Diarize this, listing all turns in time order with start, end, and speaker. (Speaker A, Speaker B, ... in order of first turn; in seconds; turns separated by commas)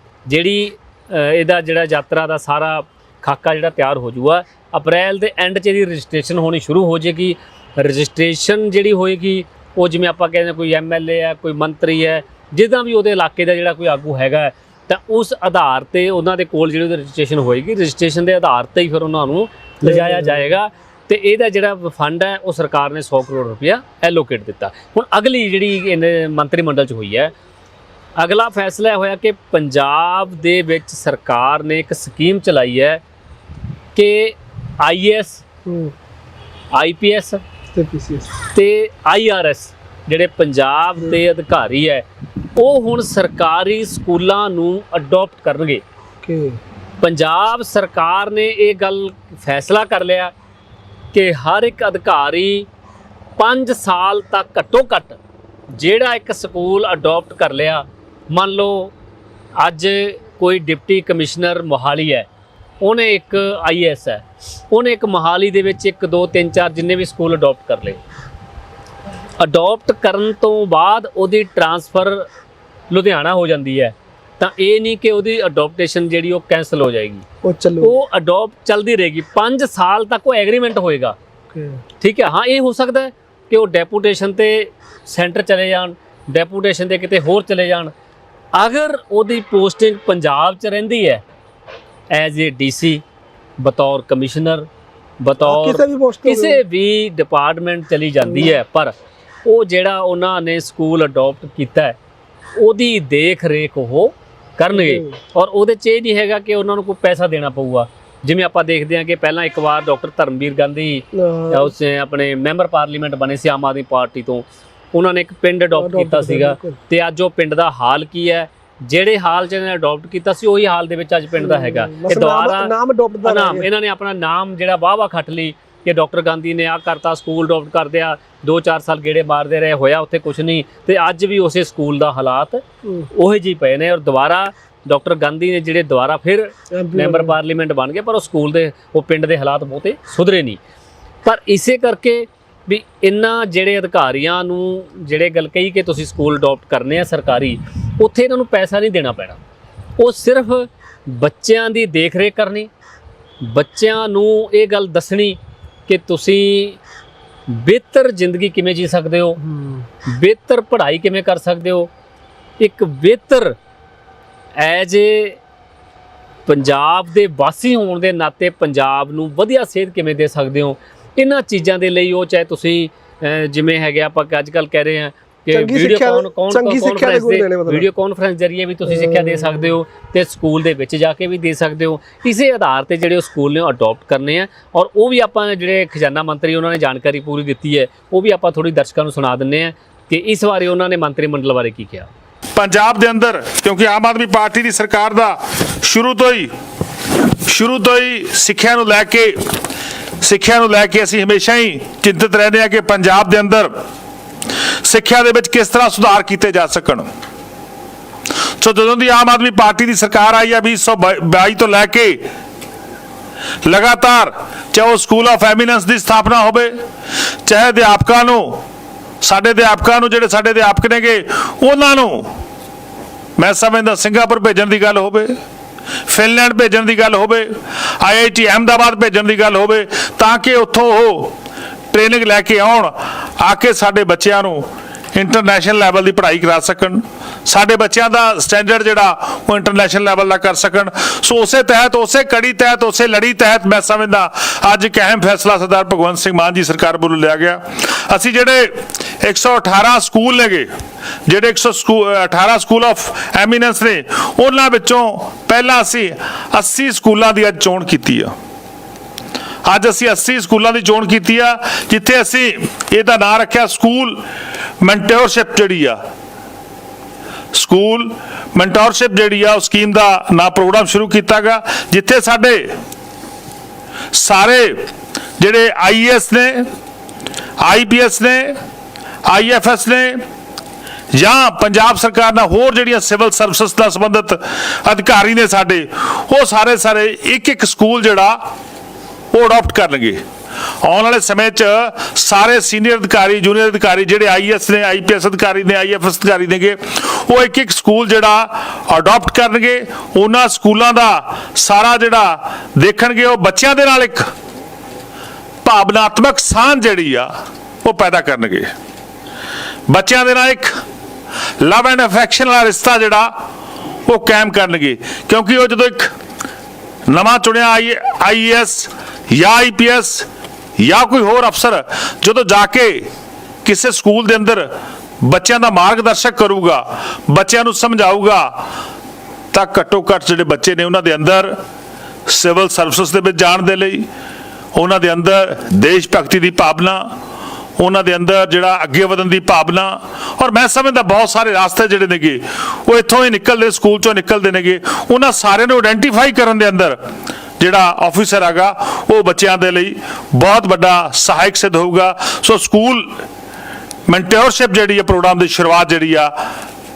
Speaker A: 0.3-27.3, Speaker B: 19.8-20.5, Speaker A: 28.2-33.0, Speaker A: 34.0-35.4, Speaker B: 35.7-36.0, Speaker A: 36.7-37.4, Speaker B: 37.7-38.3, Speaker A: 38.5-45.8, Speaker B: 46.2-46.6, Speaker A: 47.0-50.3, Speaker A: 51.1-52.7, Speaker A: 53.4-55.2, Speaker A: 55.7-58.9, Speaker A: 59.6-62.3, Speaker A: 62.8-68.0, Speaker A: 69.4-72.3, Speaker A: 72.9-77.2, Speaker B: 77.4-78.0, Speaker A: 77.8-81.2, Speaker B: 81.5-81.8, Speaker A: 82.0-87.9, Speaker A: 88.6-91.2, Speaker A: 92.1-93.0, Speaker A: 93.6-94.7, Speaker A: 95.2-98.9, Speaker B: 95.4-96.6, Speaker B: 98.2-98.6, Speaker A: 99.5-102.0, Speaker A: 102.6-122.7, Speaker B: 104.7-105.2, Speaker B: 111.1-111.7, Speaker B: 115.8-116.8, Speaker B: 121.4-123.7, Speaker A: 123.2-140.6, Speaker B: 136.7-137.3, Speaker A: 141.2-149.4, Speaker A: 150.0-152.7, Speaker A: 153.4-156.8, Speaker A: 157.5-159.4, Speaker B: 159.4-159.9, Speaker A: 160.1-161.9, Speaker A: 162.6-163.6, Speaker A: 164.6-165.4, Speaker A: 166.5-192.1, Speaker B: 175.5-177.9, Speaker B: 178.9-179.7, Speaker C: 192.6-196.5, Speaker C: 197.3-199.6, Speaker C: 200.2-203.8, Speaker C: 204.8-207.1, Speaker C: 208.6-212.2, Speaker C: 213.7-216.8, Speaker C: 217.4-218.6, Speaker C: 219.2-222.3, Speaker C: 223.4-225.4, Speaker C: 226.1-231.3, Speaker C: 231.9-250.7, Speaker C: 251.3-258.3, Speaker C: 259.6-264.2, Speaker C: 264.8-266.0, Speaker C: 267.5-272.8, Speaker C: 274.1-276.7, Speaker C: 277.6-278.6, Speaker C: 279.2-280.2, Speaker C: 281.1-288.5, Speaker C: 289.3-290.2, Speaker C: 290.8-304.3, Speaker C: 305.6-307.3, Speaker C: 307.8-308.7, Speaker C: 309.9-310.7, Speaker C: 311.6-313.3, Speaker C: 314.1-316.1, Speaker C: 317.1-320.3, Speaker C: 320.8-323.1, Speaker C: 323.6-324.7, Speaker C: 325.2-328.6, Speaker C: 329.5-331.6, Speaker C: 332.3-334.1, Speaker C: 334.8-337.1, Speaker C: 337.8-347.0, Speaker C: 347.6-353.2, Speaker C: 354.1-356.3